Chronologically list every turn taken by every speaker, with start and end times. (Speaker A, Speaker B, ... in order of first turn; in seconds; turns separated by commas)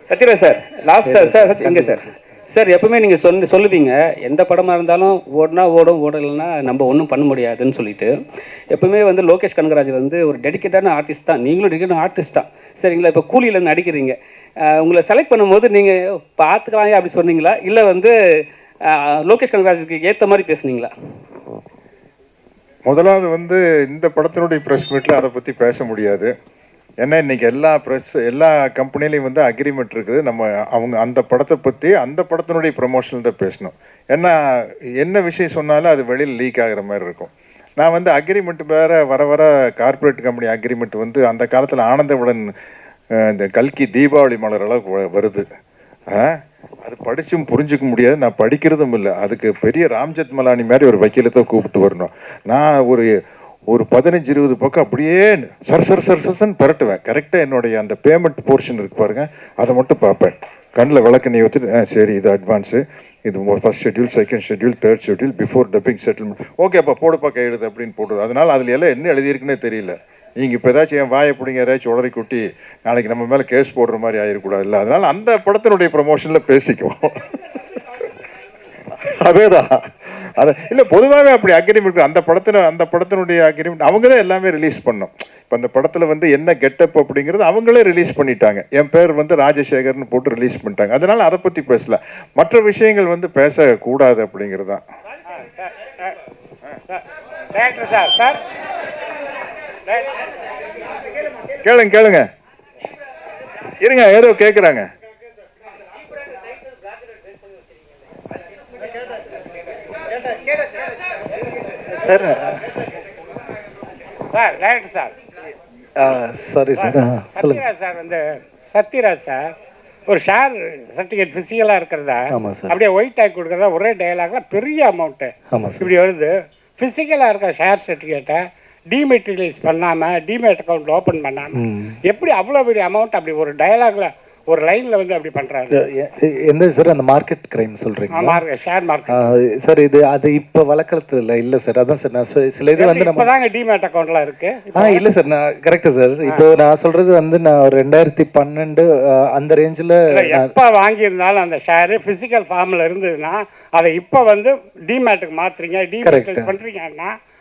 Speaker A: 0.1-8.1, Speaker B: 1.1-2.1, Speaker A: 8.7-14.2, Speaker A: 14.7-18.1, Speaker A: 18.9-20.9, Speaker C: 22.9-26.4, Speaker C: 27.0-42.5, Speaker C: 43.1-45.5, Speaker C: 46.1-53.1, Speaker C: 53.7-77.4, Speaker C: 79.0-94.8, Speaker D: 95.3-96.2, Speaker D: 97.5-98.4, Speaker D: 99.9-100.2, Speaker C: 101.6-102.3, Speaker C: 103.8-104.9, Speaker B: 112.0-112.7, Speaker D: 114.3-115.1, Speaker B: 116.0-117.7, Speaker D: 116.8-119.5, Speaker D: 120.1-135.8, Speaker B: 122.3-122.8, Speaker B: 125.5-125.9, Speaker B: 131.6-132.0, Speaker B: 135.7-138.4, Speaker D: 138.1-139.3, Speaker B: 139.1-143.3, Speaker D: 142.8-145.0, Speaker B: 144.8-150.5, Speaker D: 150.1-157.1, Speaker B: 156.0-156.5